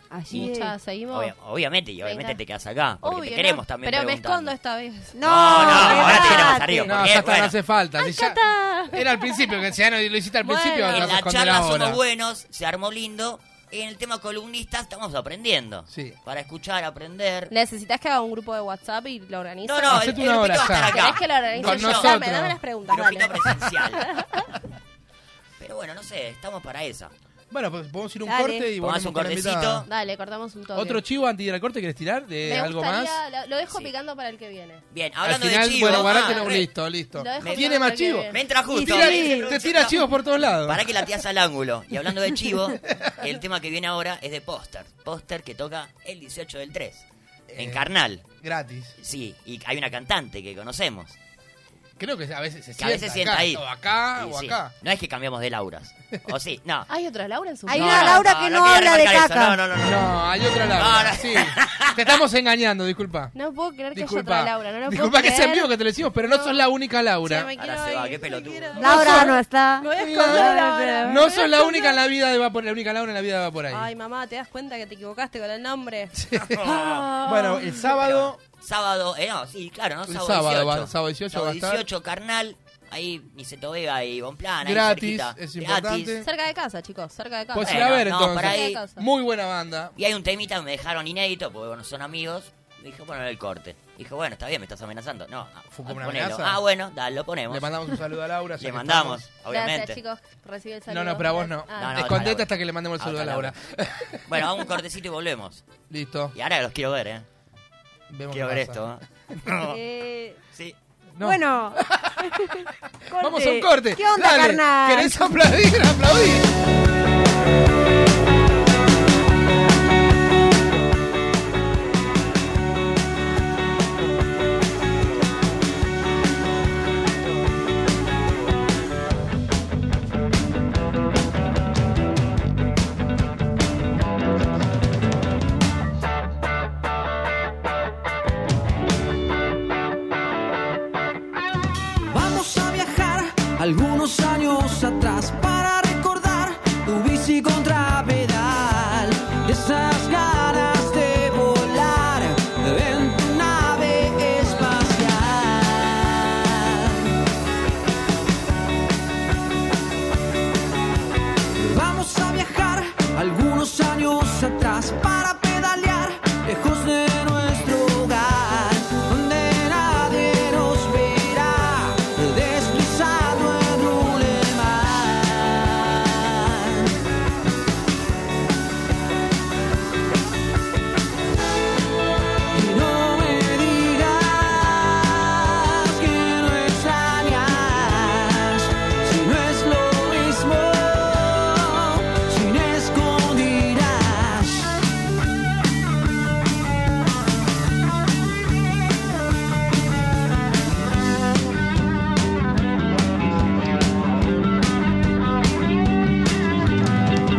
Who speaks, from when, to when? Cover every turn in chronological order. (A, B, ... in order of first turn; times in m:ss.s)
0:00.1-0:00.7 A
0:00.3-0:01.3 B
0:01.1-0:04.5 C
0:02.0-0:02.4 B
0:03.0-0:06.6 B
0:05.1-0:06.9 A
0:05.2-0:07.5 C
0:06.8-0:12.0 D
0:08.0-0:09.4 B
0:10.4-0:11.2 B
0:10.9-0:17.5 C
0:15.9-0:16.2 D
0:17.5-0:24.5 B
0:19.6-0:22.2 C
0:19.9-0:22.6 D
0:22.9-0:24.1 C
0:25.6-0:27.1 C
0:27.5-0:29.9 D
0:28.3-0:28.7 A
0:28.8-0:29.9 C
0:29.9-0:31.0 B
0:30.7-0:33.2 D
0:32.4-0:34.8 B
0:33.6-0:33.9 C
0:34.9-0:36.6 C
0:35.2-0:40.9 D
0:35.8-0:38.4 B
0:37.4-0:37.7 C
0:38.3-0:40.0 C
0:38.7-0:39.5 A
0:40.6-0:47.0 C
0:47.5-0:47.8 D
0:47.6-0:48.2 C
0:48.4-0:48.9 D
0:49.0-0:51.2 C
0:52.0-0:54.7 D
0:52.8-0:56.9 C
0:56.9-0:58.2 B
0:57.7-0:59.6 A
0:57.7-1:02.2 C
0:59.8-1:03.3 D
1:03.3-1:06.6 B
1:03.9-1:07.5 D
1:07.2-1:12.0 B
1:07.6-1:09.2 C
1:08.8-1:11.2 A
1:08.8-1:09.4 D
1:10.0-1:13.9 D
1:13.7-1:16.1 B
1:16.2-1:18.4 D
1:16.5-1:17.1 C
1:16.7-1:17.6 B
1:17.8-1:26.2 C
1:20.1-1:21.8 D
1:24.6-1:26.2 D
1:26.2-1:29.0 B
1:27.5-1:29.9 D
1:27.6-1:28.8 C
1:30.0-1:37.7 C
1:35.7-1:36.6 D
1:37.5-1:39.3 D
1:38.6-1:40.0 C
1:39.5-1:42.2 B
1:40.9-1:44.4 D
1:41.8-1:43.5 C
1:44.2-1:45.6 C
1:45.9-1:46.3 D
1:46.3-1:47.2 C
1:48.1-1:48.9 D
1:48.3-1:49.8 C
1:49.6-1:50.4 A
1:51.1-1:56.5 D
1:51.2-1:55.2 A
2:22.1-2:37.1 E
2:41.6-2:56.9 E
3:02.5-3:14.8 E